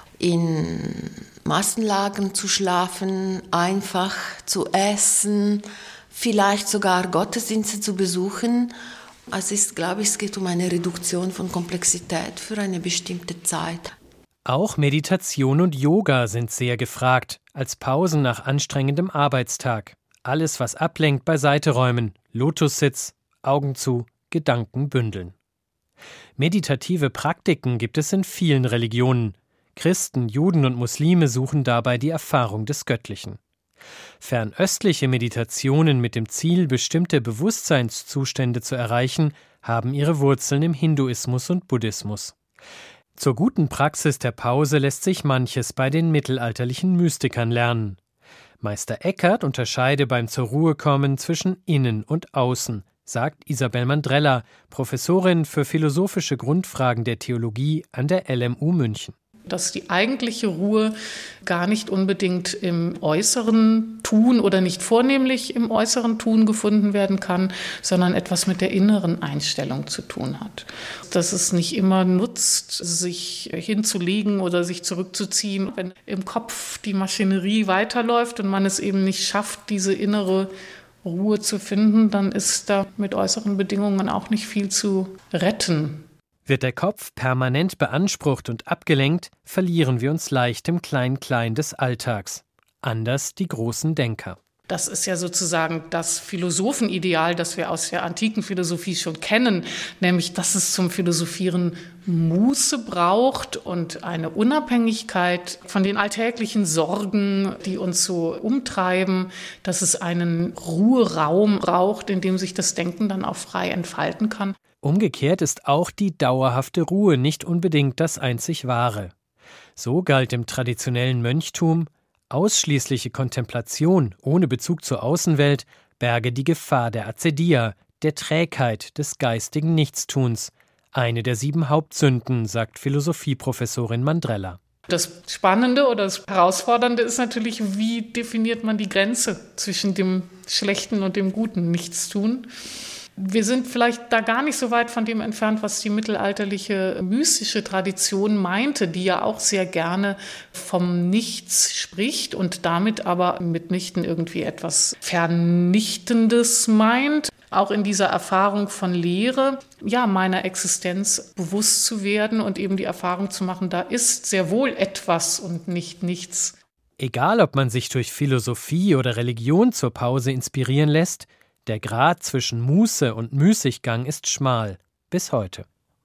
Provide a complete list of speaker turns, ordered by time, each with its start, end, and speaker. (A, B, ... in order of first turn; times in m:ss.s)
0:00.2-0:08.7 A
0:09.3-0:13.9 A
0:14.4-0:25.3 B
0:26.4-0:33.4 B
0:34.2-0:42.3 B
0:43.2-0:48.0 B
0:48.6-0:59.1 B
0:59.5-1:00.9 C
1:01.4-1:20.5 C
1:21.0-1:26.0 C
1:26.4-1:34.4 B
1:34.7-1:54.6 C
1:54.8-1:59.1 B
1:59.8-2:14.6 B
2:14.9-2:22.5 C
2:23.2-2:46.5 C
2:47.0-2:55.6 B